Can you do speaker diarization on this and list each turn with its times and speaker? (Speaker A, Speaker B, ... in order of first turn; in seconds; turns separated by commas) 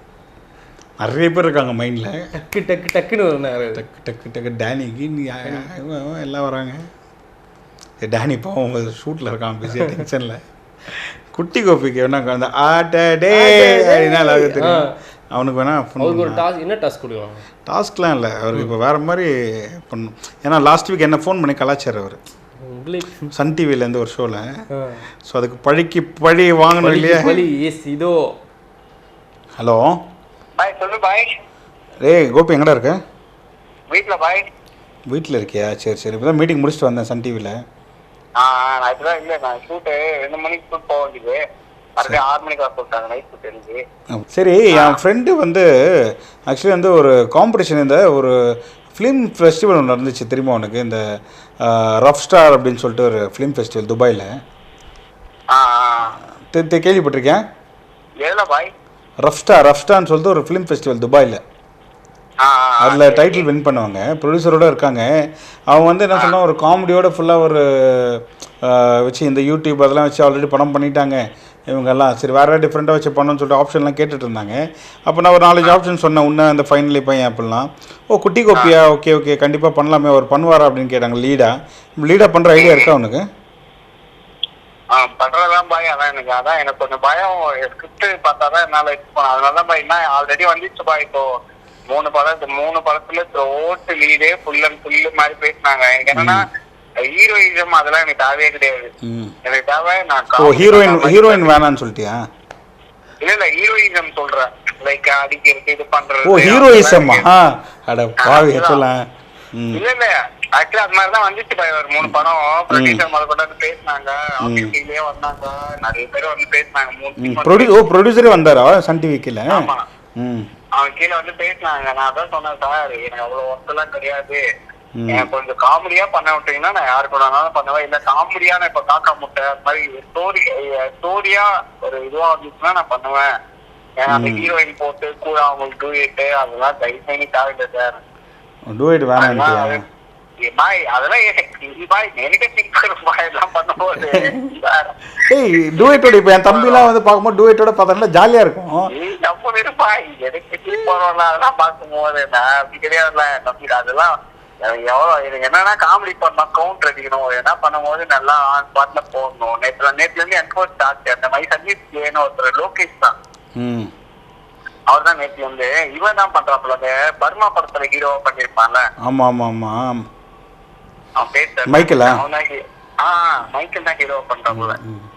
Speaker A: 1.0-2.3, Speaker B: 2.4-3.8, Speaker A: 3.7-6.9, Speaker A: 8.0-16.4, Speaker B: 13.3-14.9, Speaker B: 16.0-17.4, Speaker A: 17.6-22.2, Speaker B: 22.6-23.3, Speaker A: 23.3-24.6, Speaker B: 24.7-25.0, Speaker A: 25.2-27.4, Speaker B: 26.8-28.3, Speaker A: 29.6-30.0, Speaker C: 30.6-31.3, Speaker A: 32.0-33.0, Speaker C: 33.9-34.5, Speaker A: 35.1-37.6, Speaker C: 38.4-41.4, Speaker C: 42.0-43.8, Speaker A: 44.1-51.0, Speaker C: 44.7-45.0, Speaker A: 51.6-54.3, Speaker C: 55.5-56.2, Speaker A: 56.5-57.4, Speaker C: 58.2-58.7, Speaker A: 59.2-61.4, Speaker C: 62.4-63.4, Speaker A: 62.8-83.2, Speaker C: 82.6-82.9, Speaker C: 84.9-91.3, Speaker C: 91.9-96.5, Speaker A: 96.1-96.4, Speaker C: 97.0-98.9, Speaker A: 99.0-99.3, Speaker C: 99.4-101.6, Speaker A: 100.3-102.2, Speaker C: 103.2-107.2, Speaker A: 106.2-109.8, Speaker C: 108.2-108.8, Speaker C: 109.7-117.8, Speaker A: 112.7-113.0, Speaker A: 114.4-114.7, Speaker A: 117.2-120.5, Speaker C: 119.5-119.9, Speaker C: 120.7-124.4, Speaker A: 125.0-125.3, Speaker C: 125.1-133.3, Speaker C: 134.0-138.0, Speaker A: 134.1-134.5, Speaker A: 138.7-139.8, Speaker C: 139.2-139.8, Speaker C: 140.4-144.9, Speaker A: 144.0-144.3, Speaker A: 145.2-148.9, Speaker C: 145.7-146.9, Speaker C: 148.9-163.1, Speaker A: 163.6-163.9, Speaker C: 164.9-168.8, Speaker A: 169.0-170.1, Speaker C: 171.2-174.8, Speaker A: 171.7-172.2, Speaker A: 174.5-175.1